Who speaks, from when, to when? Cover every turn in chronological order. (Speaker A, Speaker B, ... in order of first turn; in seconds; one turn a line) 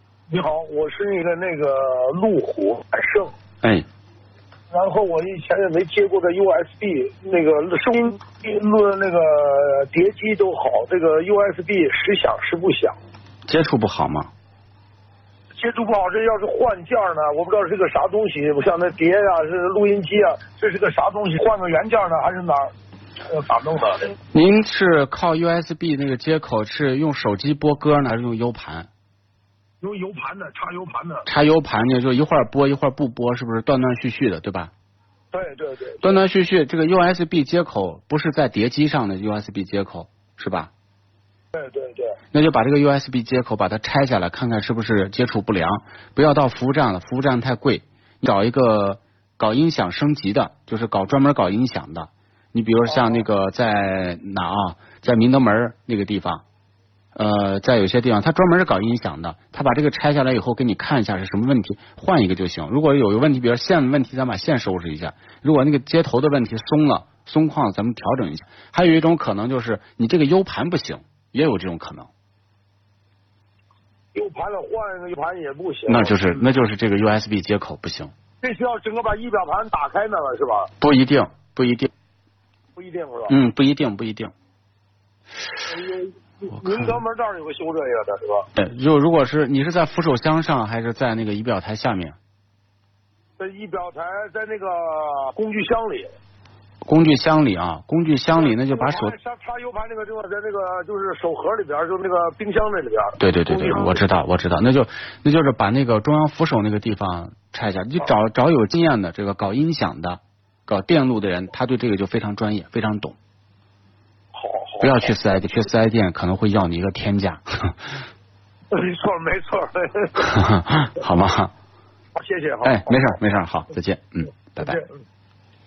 Speaker A: 0.3-3.3
Speaker A: 4.7-13.0
Speaker B: 13.5-14.3
Speaker A: 15.6-22.7
Speaker A: 23.3-24.1
Speaker B: 24.3-28.9
Speaker A: 29.8-31.3
Speaker B: 31.3-34.7
Speaker A: 35.3-36.2
Speaker B: 36.0-40.7
Speaker A: 41.5-42.2
Speaker B: 42.3-56.4
Speaker A: 52.9-53.2
Speaker B: 57.2-72.1
Speaker A: 74.1-76.3
Speaker B: 75.9-78.1
Speaker A: 78.4-80.7
Speaker B: 80.8-81.9
Speaker A: 82.8-83.4
Speaker B: 83.3-84.3
Speaker A: 85.7-88.5
Speaker B: 86.5-87.0
Speaker B: 88.5-92.2
Speaker A: 93.4-96.2
Speaker B: 96.8-99.2
Speaker A: 98.3-104.0
Speaker B: 103.2-113.2
Speaker A: 114.3-115.1
Speaker B: 114.8-117.8
Speaker A: 118.7-120.2
Speaker B: 120.2-121.5
Speaker A: 122.2-123.1
Speaker B: 122.6-124.8
Speaker A: 124.6-125.0